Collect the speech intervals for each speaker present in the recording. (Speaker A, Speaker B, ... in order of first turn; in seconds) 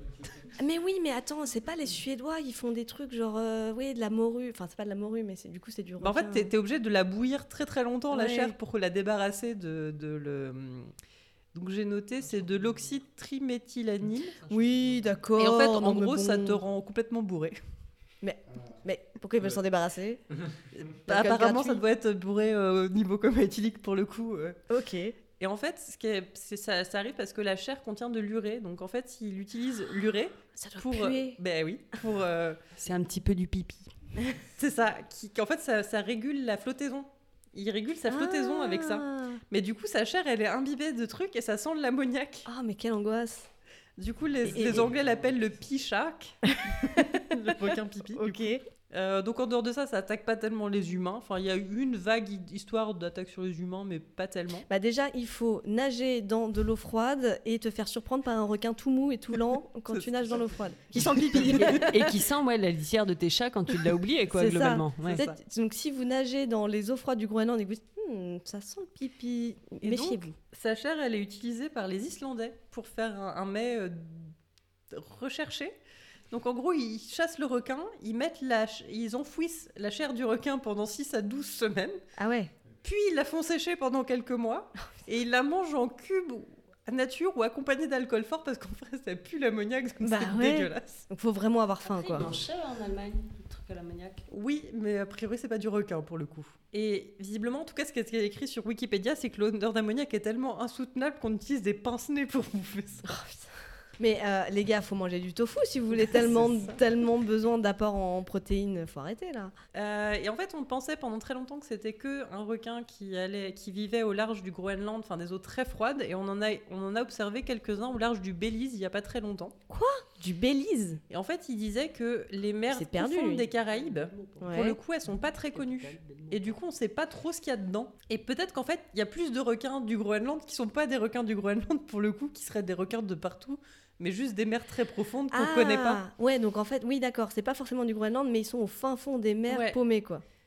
Speaker A: 0.6-6.5, 8.1-8.5, 14.5-16.6, 18.2-20.2, 21.1-21.8, 24.7-25.1, 30.6-31.4, 38.1-39.4, 42.5-43.5, 44.4-44.9, 46.7-47.2, 48.1-48.6, 54.7-62.0, 64.3-70.3, 82.2-82.5, 90.0-92.3, 103.0-103.4, 104.0-109.5, 119.7-121.0, 122.7-123.5, 124.4-124.8, 135.3-140.2
Speaker B: 6.0-10.9, 11.5-14.5, 15.3-17.6, 20.8-24.6, 25.4-32.6, 34.5-42.5, 44.0-46.4, 47.3-54.6, 59.9-61.9, 65.0-65.3, 69.8-74.3, 74.9-75.8, 76.3-82.0, 82.8-91.0, 94.3-103.1, 106.0-106.8, 109.7-119.5, 121.1-136.0, 139.5-139.8
Speaker C: 32.8-33.9, 61.5-65.2, 91.8-94.2, 123.7-124.5, 125.5-126.5